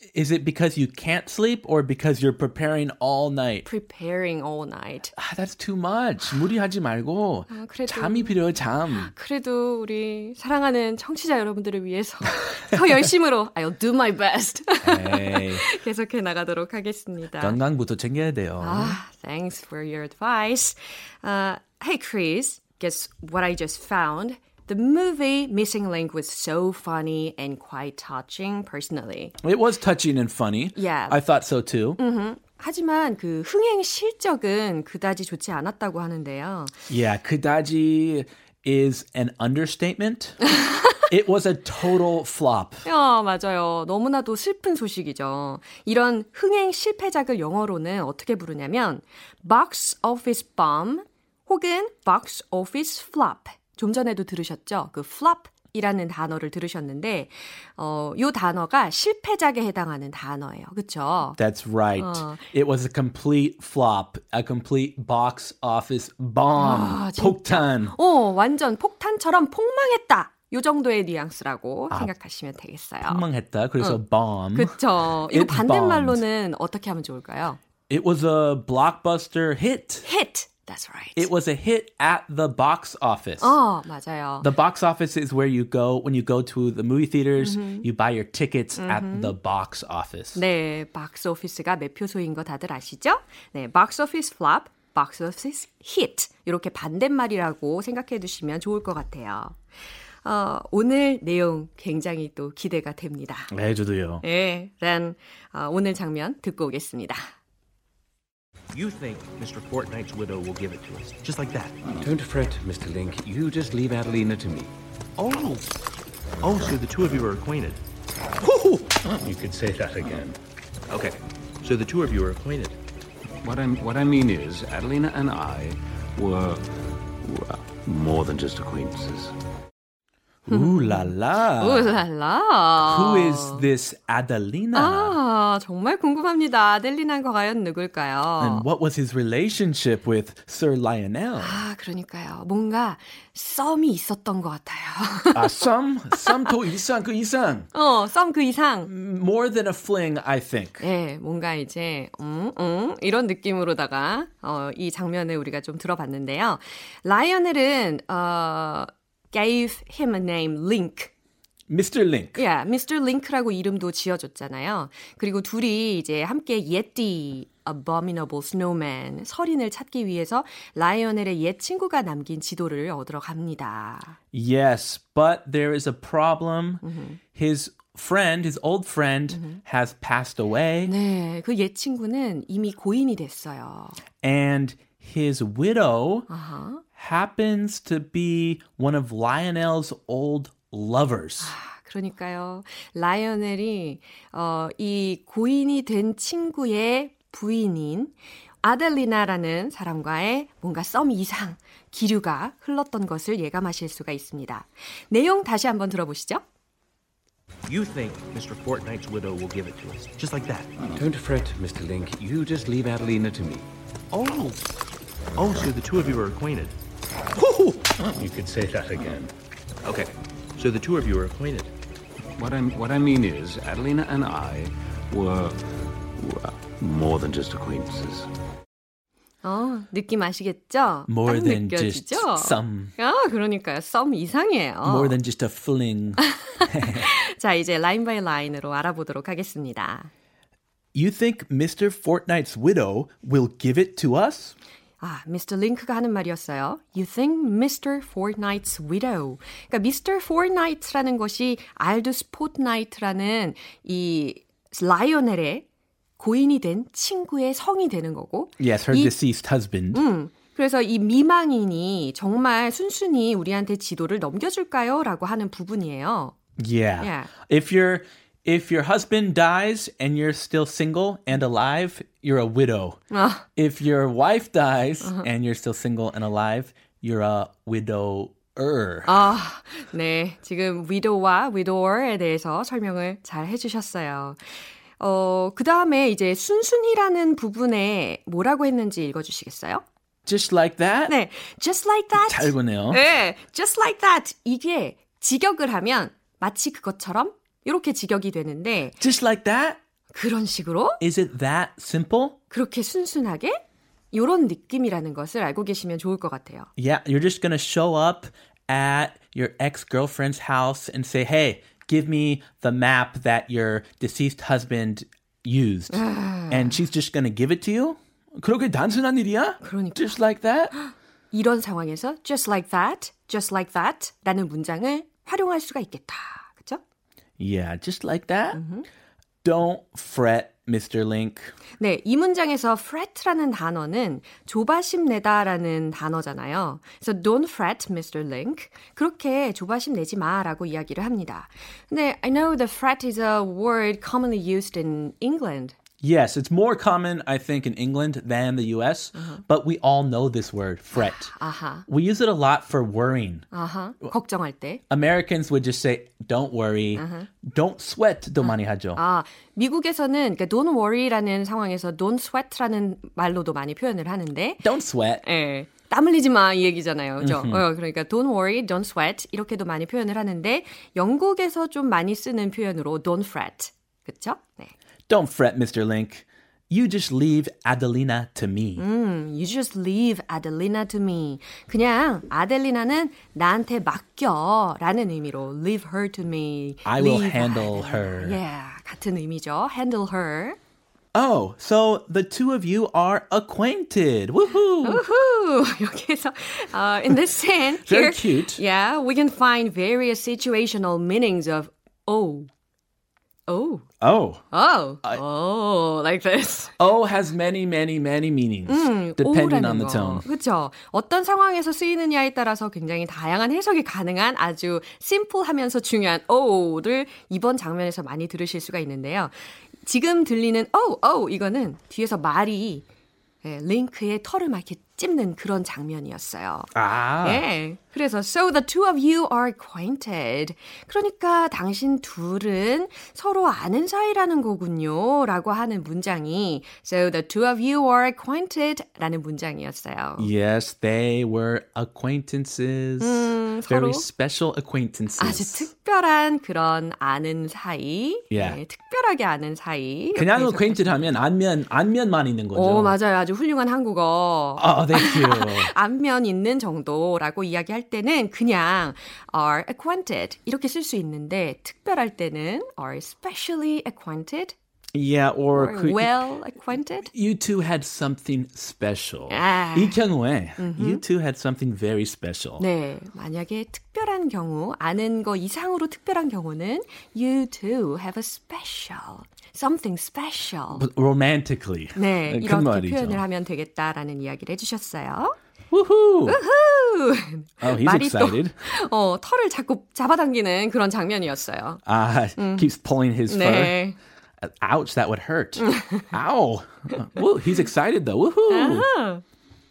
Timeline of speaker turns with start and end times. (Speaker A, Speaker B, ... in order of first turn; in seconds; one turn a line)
Speaker A: 0.1-3.6
Speaker B: 3.6-5.1
Speaker A: 5.2-9.1
Speaker B: 7.5-8.3
Speaker B: 8.9-17.6
Speaker A: 14.8-15.7
Speaker A: 17.4-19.0
Speaker B: 18.6-29.4
Speaker A: 29.4-32.0
Speaker B: 30.8-31.2
Speaker B: 32.0-36.8
Speaker A: 36.9-40.4
Speaker B: 40.5-41.0
Speaker A: 41.1-42.8
Speaker B: 42.9-61.4
Speaker A: 61.4-68.0
Speaker B: 62.0-62.5
Speaker B: 66.6-73.2
Speaker A: 73.0-76.2
Speaker B: 74.5-77.6
Speaker A: 77.9-80.1
Speaker B: 80.0-81.3
Speaker A: 81.2-83.6
Speaker B: 83.4-84.5
Speaker A: 84.4-90.4
Speaker B: 87.4-87.9
Speaker B: 88.8-89.3
Speaker B: 90.3-99.6
Speaker B: 100.2-103.5
Speaker A: 103.5-104.2
Speaker B: 104.2-107.3
Speaker C: 108.7-111.8
Speaker D: 112.0-114.7
Speaker C: 115.2-115.7
Speaker C: 116.4-117.8
Speaker D: 118.4-120.4
Speaker C: 120.9-122.8
Speaker D: 123.4-129.3
Speaker A: 130.5-132.0
Speaker B: 130.5-133.7
Speaker A: 132.8-135.2
Speaker B: 134.7-138.7
Speaker A: 138.4-141.6
Speaker B: 141.4-145.6
Speaker A: 145.3-147.7
Speaker B: 147.7-148.9
Speaker A: 148.9-150.8
Speaker B: 150.8-161.1
Speaker A: 161.7-162.4
Speaker B: 162.4-174.2
Speaker A: 174.3-176.8
Speaker B: 176.8-177.2
Speaker A: 177.3-180.9
Speaker B: 179.3-179.6
Speaker B: 180.8-184.0
Speaker A: 184.2-186.3
Speaker B: 186.3-186.8
Speaker A: 187.0-191.5
Speaker B: 191.4-206.4
Speaker C: 207.7-210.8
Speaker D: 211.0-213.7
Speaker C: 214.1-214.6
Speaker C: 215.4-216.8
Speaker D: 217.4-219.3
Speaker C: 219.8-221.7
Speaker D: 222.3-228.3
Speaker B: 229.4-235.2
Speaker A: 231.1-232.9
Speaker A: 234.8-237.1
Speaker B: 236.2-240.1
Speaker A: 240.9-244.6
Speaker B: 245.0-255.7
Speaker B: 256.2-259.1
Speaker A: 258.6-260.0
Speaker B: 259.9-266.4
Speaker A: 266.6-273.0
Speaker B: 267.0-267.3
Speaker B: 273.1-273.5
Speaker A: 273.6-279.2
Speaker B: 275.0-275.3
Speaker B: 279.1-289.8
Speaker A: 290.3-291.2
Speaker B: 291.1-299.0
Speaker A: 292.2-293.0
Speaker A: 299.0-299.8
Speaker B: 300.1-301.0
Speaker A: 301.0-302.4
Speaker B: 302.5-303.6
Speaker B: 304.1-306.7
Speaker A: 306.8-320.8
Speaker B: 315.9-316.8
Speaker B: 319.6-320.2
Speaker B: 320.7-326.8
Speaker A: 327.4-328.6
Speaker B: 328.5-328.9
Speaker A: 329.4-331.5
Speaker B: 331.8-345.8
Speaker A: 346.0-351.3
Speaker B: 349.1-349.4
Speaker B: 351.0-351.9
Speaker A: 351.9-353.5
Speaker B: 353.5-354.8
Speaker A: 354.9-359.0
Speaker B: 357.0-357.3
Speaker B: 358.4-364.7
Speaker A: 364.6-365.2
Speaker B: 365.2-374.7
Speaker A: 367.2-367.6
Speaker A: 375.1-378.8
Speaker B: 378.8-390.6
Speaker A: 386.9-388.4
Speaker A: 391.1-395.0
Speaker B: 394.8-402.5
Speaker A: 397.8-398.6
Speaker B: 403.5-403.9
Speaker A: 404.0-404.4
Speaker B: 404.5-406.7
Speaker A: 406.8-410.3
Speaker B: 408.7-422.9
Speaker B: 423.4-440.3
Speaker A: 426.8-427.4
Speaker A: 440.2-445.7
Speaker B: 443.0-444.1
Speaker B: 445.2-451.1
Speaker A: 448.3-448.6
Speaker A: 450.1-452.9
Speaker B: 452.5-464.6
Speaker A: 454.6-455.7
Speaker A: 464.9-466.2
Speaker B: 465.5-467.1
Speaker A: 467.1-472.6
Speaker B: 469.3-470.0
Speaker B: 470.6-471.0
Speaker B: 472.6-480.9
Speaker A: 480.8-483.2
Speaker B: 481.9-485.4
Speaker A: 485.7-486.4
Speaker B: 486.3-491.8
Speaker A: 487.6-488.6
Speaker A: 491.9-493.8
Speaker B: 492.4-492.7
Speaker B: 493.3-494.0
Speaker A: 494.4-498.9
Speaker B: 495.6-496.1
Speaker B: 498.5-499.2